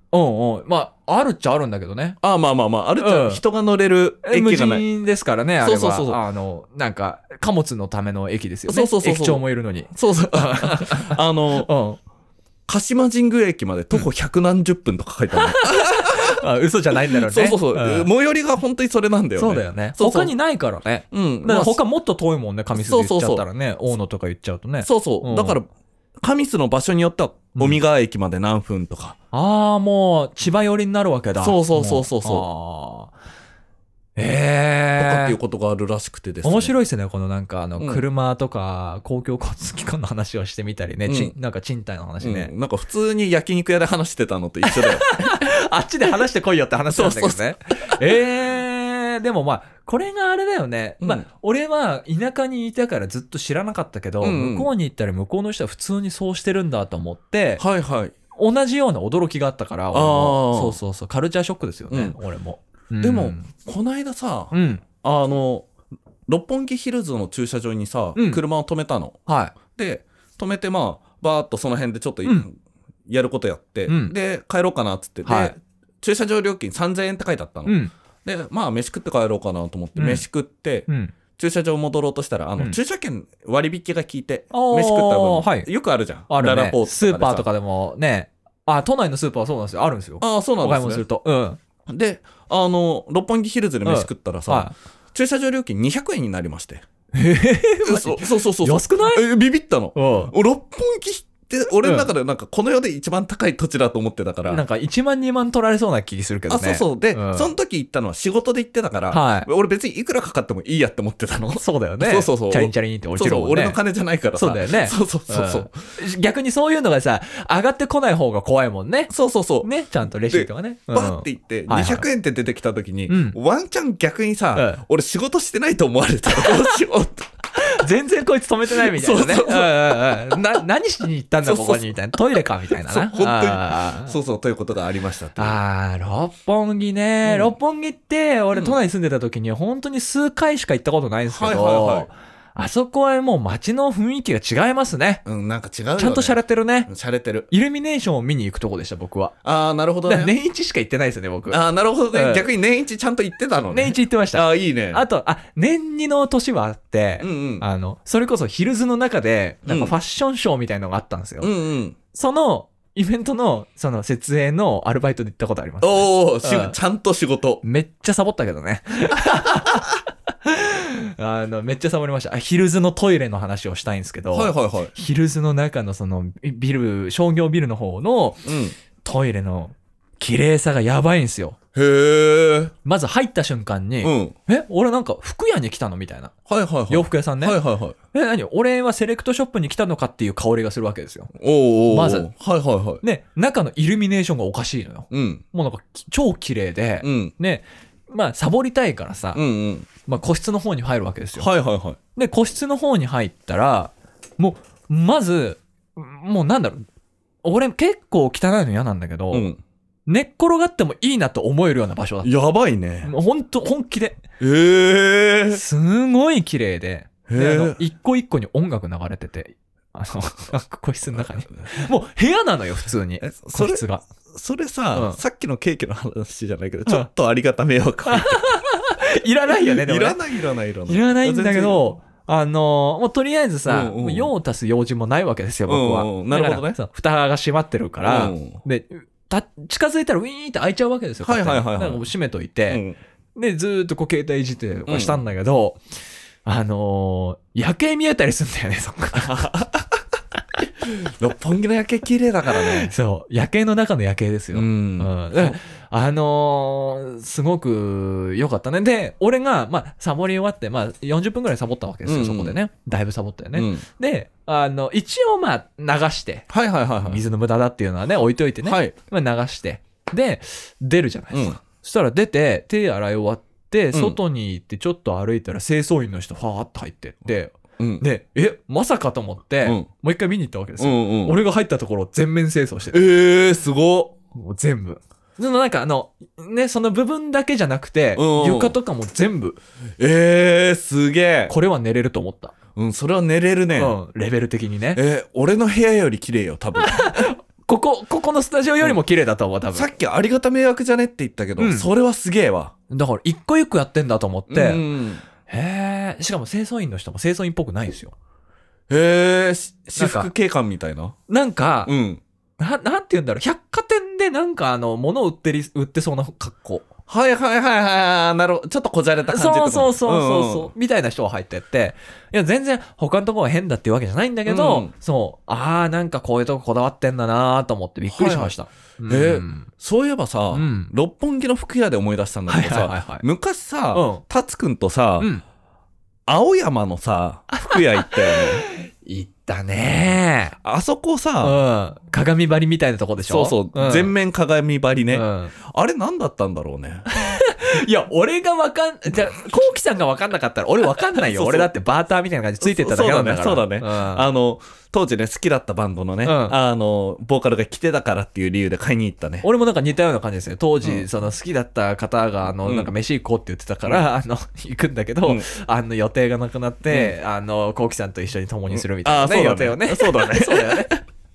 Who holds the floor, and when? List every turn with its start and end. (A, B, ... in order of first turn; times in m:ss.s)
0:00.1-0:02.2 A
0:02.2-0:04.9 B
0:03.0-0:03.4 A
0:04.2-0:12.0 A
0:05.6-0:06.2 B
0:08.7-0:11.7 B
0:12.7-0:16.4 B
0:15.3-0:18.1 A
0:17.1-0:20.3 B
0:19.4-0:25.6 A
0:21.1-0:21.8 B
0:22.7-0:23.5 B
0:24.8-0:25.7 B
0:26.2-0:29.2 B
0:29.3-0:33.1 A
0:31.4-0:32.5 B
0:34.2-0:35.4 A
0:35.0-0:36.8 B
0:36.4-0:42.5 A
0:41.1-0:41.3 B
0:42.2-0:45.5 B
0:44.6-0:57.6 A
0:46.9-0:48.2 B
0:54.2-0:54.7 B
0:57.6-0:58.1 B
0:58.4-1:03.5 A
0:59.9-1:00.8 B
1:01.9-1:02.2 B
1:03.0-1:05.7 B
1:04.5-1:04.8 A
1:06.3-1:12.6 B
1:08.2-1:08.4 A
1:09.3-1:09.6 A
1:13.1-1:27.5 B
1:13.9-1:14.1 A
1:15.2-1:15.6 A
1:17.7-1:17.9 A
1:20.0-1:20.2 A
1:20.9-1:21.1 A
1:24.5-1:25.7 A
1:26.3-1:31.6 A
1:30.2-1:31.0 B
1:31.9-1:36.8 B
1:33.8-1:34.7 A
1:37.1-1:39.2 A
1:37.8-1:44.6 B
1:40.0-1:40.3 A
1:41.8-1:42.1 A
1:44.5-1:47.5 A
1:46.5-1:55.8 B
1:49.1-1:49.5 A
1:51.6-1:53.8 A
1:54.3-2:02.1 A
1:59.1-1:59.7 B
2:00.3-2:07.3 B
2:03.1-2:03.4 A
2:04.6-2:04.8 A
2:06.4-2:06.7 A
2:07.6-2:14.2 A
2:08.7-2:10.4 B
2:11.4-2:11.9 B
2:12.7-2:15.6 B
2:15.4-2:25.2 A
2:17.2-2:17.6 B
2:18.5-2:18.8 B
2:21.3-2:22.1 B
2:25.2-2:27.5 B
2:26.0-2:26.9 A
2:27.5-2:29.4 A
2:29.4-2:30.3 B
2:30.1-2:31.6 A
2:31.5-2:35.0 B
2:32.1-2:32.5 A
2:33.7-2:41.5 A
2:37.2-2:37.6 B
2:39.7-2:39.9 B
2:41.4-2:42.0 B
2:42.1-2:46.8 A
2:45.8-2:47.6 B
2:47.6-2:58.5 A
2:54.3-2:54.9 B
2:58.4-2:58.8 B
2:59.0-3:01.6 A
3:01.7-3:02.7 B
3:02.8-3:06.4 A
3:04.0-3:04.4 B
3:06.5-3:08.0 B
3:06.9-3:07.6 A
3:08.1-3:11.3 A
3:11.3-3:13.0 B
3:11.9-3:12.3 A
3:13.0-3:19.4 A
3:15.1-3:15.4 B
3:17.0-3:17.3 B
3:19.4-3:19.9 B
3:20.0-3:21.5 A
3:21.4-3:22.0 B
3:22.2-3:26.9 A
3:27.4-3:29.5 A
3:29.3-3:29.6 B
3:30.1-3:32.3 A
3:32.2-3:33.1 B
3:33.0-3:34.2 A
3:34.4-3:35.6 B
3:35.5-3:44.1 A
3:37.3-3:37.8 B
3:43.2-3:48.6 B
3:44.9-3:45.2 A
3:48.1-3:50.2 A
3:49.5-3:51.8 B
3:50.9-4:02.8 A
3:53.7-3:54.3 B
3:55.7-3:56.8 B
3:58.0-3:58.6 B
4:01.2-4:02.1 B
4:02.7-4:03.0 B
4:03.4-4:05.8 A
4:04.9-4:05.2 B
4:06.4-4:09.6 A
4:09.1-4:10.0 B
4:10.8-4:12.9 B
4:12.6-4:26.5 A
4:14.5-4:15.6 B
4:22.0-4:22.6 B
4:23.5-4:23.9 B
4:26.5-4:27.2 B
4:27.0-4:43.0 A
4:28.6-4:29.0 B
4:31.3-4:31.6 B
4:33.9-4:34.2 B
4:37.8-4:38.0 B
4:40.8-4:41.4 B
4:42.9-4:44.2 B
4:44.4-4:49.6 A
4:48.2-4:48.8 B
4:50.0-4:51.5 B
4:51.5-4:52.5 A
4:52.8-4:54.0 B
4:53.8-4:55.0 A
4:55.0-4:57.3 B
4:56.8-4:59.9 A
4:59.7-5:02.7 B
5:01.6-5:01.9 A
5:02.9-5:04.8 A
5:04.5-5:05.2 B
5:05.5-5:08.1 A
5:08.9-5:11.2 B
5:10.0-5:10.3 A
5:11.3-5:11.9 A
5:11.8-5:12.2 B
5:12.6-5:16.9 A
5:17.1-5:20.7 B
5:19.3-5:29.7 A
5:24.5-5:24.9 B
5:28.1-5:28.5 B
5:29.1-5:35.3 B
5:30.5-5:30.9 A
5:32.5-5:33.3 A
5:33.9-5:34.2 A
5:36.3-5:38.6 B
5:37.5-5:40.6 A
5:40.6-5:41.6 B
5:41.4-5:44.1 A
5:43.3-5:47.1 B
5:45.1-5:45.5 A
5:47.1-5:54.3 A
5:51.1-5:51.7 B
5:52.6-5:59.5 B
5:56.2-5:56.6 A
5:59.4-6:11.0 A
6:02.6-6:02.9 B
6:08.7-6:10.9 B